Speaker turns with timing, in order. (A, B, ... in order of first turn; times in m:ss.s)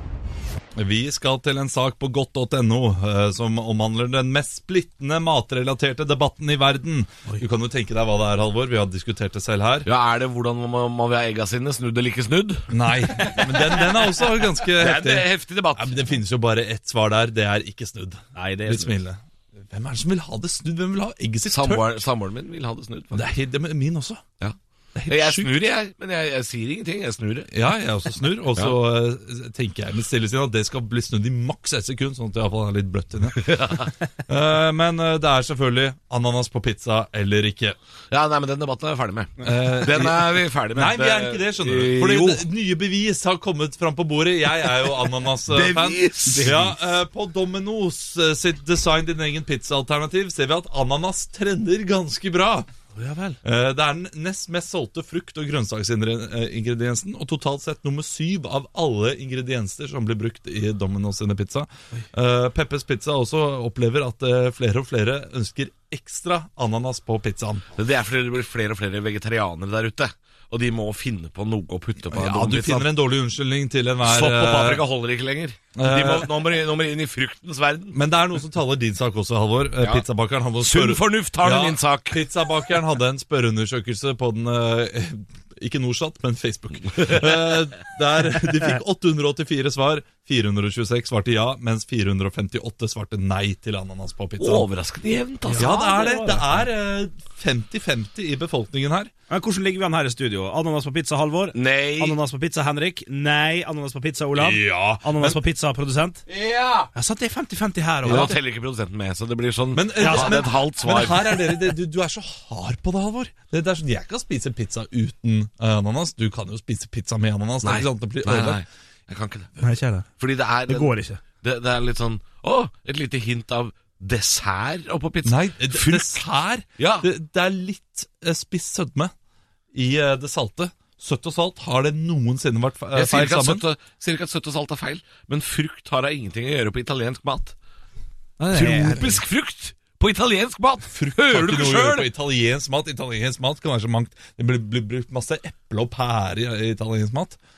0:00.8-0:09.9 A
0:09.8-0:16.1 B
0:12.7-0:21.9 A
0:18.3-0:19.0 C
0:21.4-0:23.3 B
0:23.1-0:24.2 A
0:24.9-0:25.5 A
0:25.1-0:27.5 B
0:27.5-0:37.8 A
0:33.4-0:33.9 B
0:38.1-0:42.4 B
0:39.4-0:52.7 A
0:45.4-0:46.6 B
0:46.2-0:46.7 C
0:52.9-0:53.4 C
0:53.4-1:07.6 A
1:07.8-1:12.9 B
1:12.1-1:14.8 A
1:14.0-1:18.0 B
1:15.7-1:16.5 A
1:17.9-1:34.7 A
1:19.8-1:20.0 B
1:20.6-1:22.2 B
1:27.0-1:27.3 B
1:34.4-1:36.2 B
1:35.5-1:36.6 C
1:35.5-1:39.1 A
1:39.3-1:46.2 C
1:41.5-1:42.2 B
1:44.3-1:45.4 A
1:46.3-1:46.9 B
1:46.9-1:48.4 C
1:48.0-1:51.4 B
1:48.1-1:48.3 A
1:49.7-1:58.6 A
1:50.0-1:50.5 C
1:57.6-1:59.5 B
1:59.6-2:00.1 C
2:00.2-2:06.2 B
2:00.7-2:01.2 C
2:05.2-2:09.1 A
2:06.8-2:07.1 B
2:09.7-2:13.6 A
2:12.9-2:17.6 B
2:18.4-2:19.2 C
2:18.5-2:19.1 A
2:18.5-2:22.1 B
2:20.9-2:27.4 A